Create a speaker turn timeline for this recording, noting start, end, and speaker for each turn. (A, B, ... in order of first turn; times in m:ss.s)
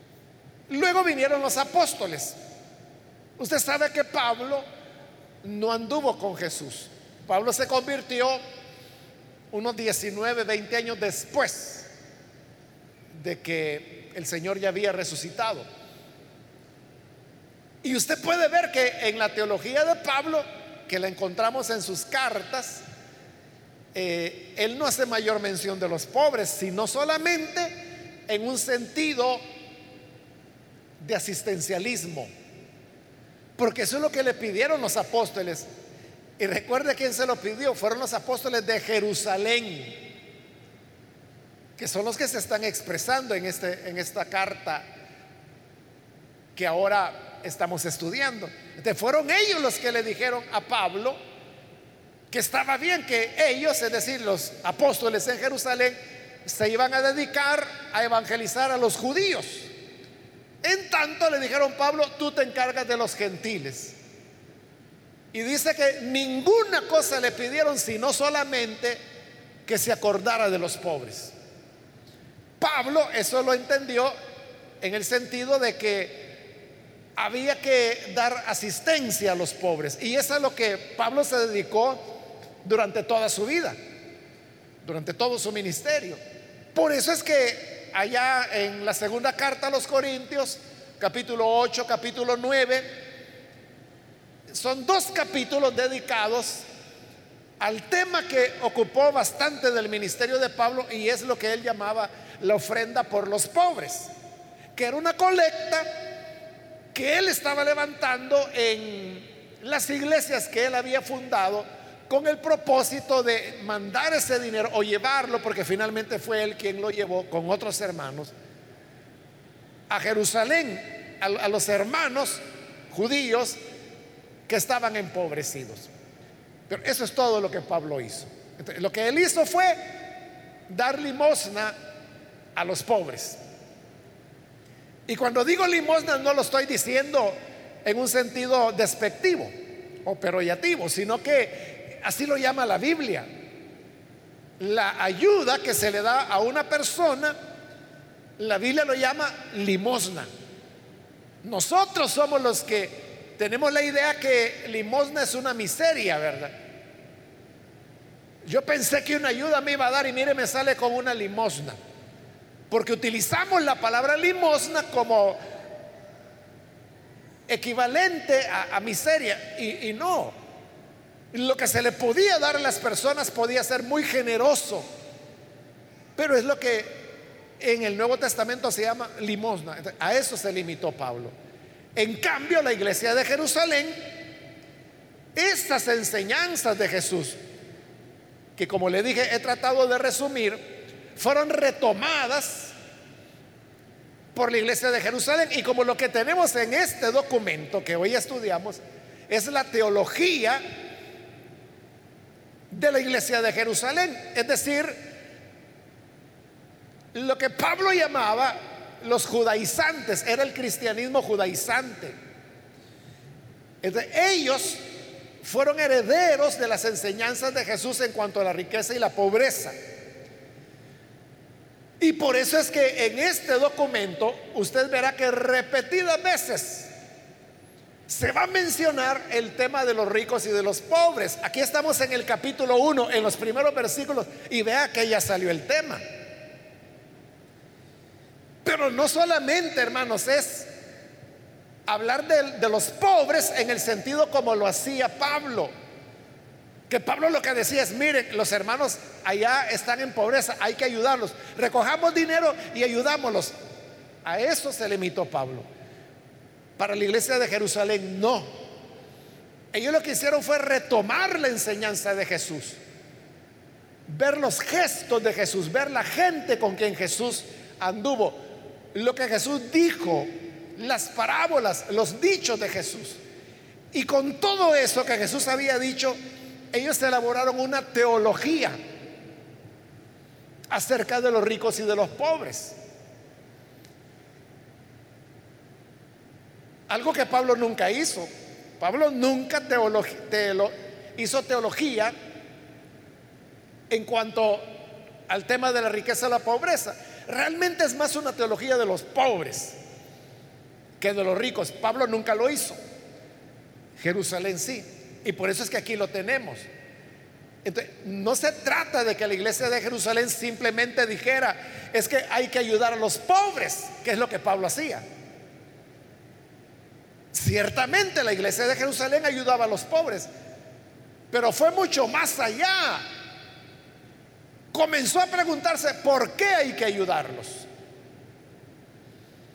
0:00.7-0:02.4 A
0:03.4-0:04.6 A
0:05.4-0:08.4 A
0:09.5-0:11.9 A
0:13.1-0:15.6 A
0:17.8-0:22.8 A
0:23.9-0:27.8 A
0:28.3-0:29.4 A
0:31.0-0:32.3 A
0:33.6-0:35.7 A
0:36.4-0:40.0 A
0:41.8-0:44.8 A
0:46.6-0:51.2 A
0:52.3-0:59.7 A
1:00.6-1:04.0 A
1:05.3-1:09.0 A
1:09.6-1:11.3 A
1:12.6-1:14.1 A
1:14.8-1:16.4 A
1:17.2-1:22.1 A
1:22.6-1:23.8 A
1:24.8-1:26.2 A
1:26.7-1:32.9 A
1:34.5-1:36.6 A
1:37.6-1:44.1 A
1:44.7-1:45.9 A
1:46.9-1:58.3 A
1:59.9-2:03.6 A
2:04.5-2:05.9 A
2:06.7-2:09.8 A
2:10.7-2:11.7 A
2:12.5-2:13.4 A
2:15.1-2:19.5 A
2:20.0-2:23.3 A
2:24.6-2:27.4 A
2:28.4-2:30.3 A
2:31.4-2:36.5 A
2:38.4-2:41.8 A
2:42.7-2:45.4 A
2:47.5-2:50.3 A
2:51.3-2:54.8 A
2:56.2-2:57.0 A
2:57.6-3:01.3 A
3:01.9-3:04.0 A
3:05.3-3:07.4 A
3:08.6-3:10.6 A
3:11.1-3:12.7 A
3:14.3-3:20.6 A
3:22.7-3:25.0 A
3:27.1-3:32.2 A
3:33.8-3:34.8 A
3:35.4-3:39.7 A
3:42.0-3:46.9 A
3:48.1-3:56.0 A
3:58.6-4:00.7 A
4:01.9-4:05.7 A
4:06.9-4:13.5 A
4:14.2-4:15.7 A
4:16.8-4:18.5 A
4:19.7-4:22.8 A
4:24.1-4:28.4 A
4:28.9-4:33.2 A
4:33.9-4:36.2 A
4:36.7-4:38.8 A
4:40.7-4:42.7 A
4:46.9-4:48.3 A
4:48.8-4:52.1 A
4:53.9-4:54.7 A
4:55.3-4:59.8 A
5:01.0-5:02.8 A
5:04.0-5:06.7 A
5:07.6-5:15.0 A
5:17.3-5:20.3 A
5:21.3-5:23.0 A
5:24.7-5:27.7 A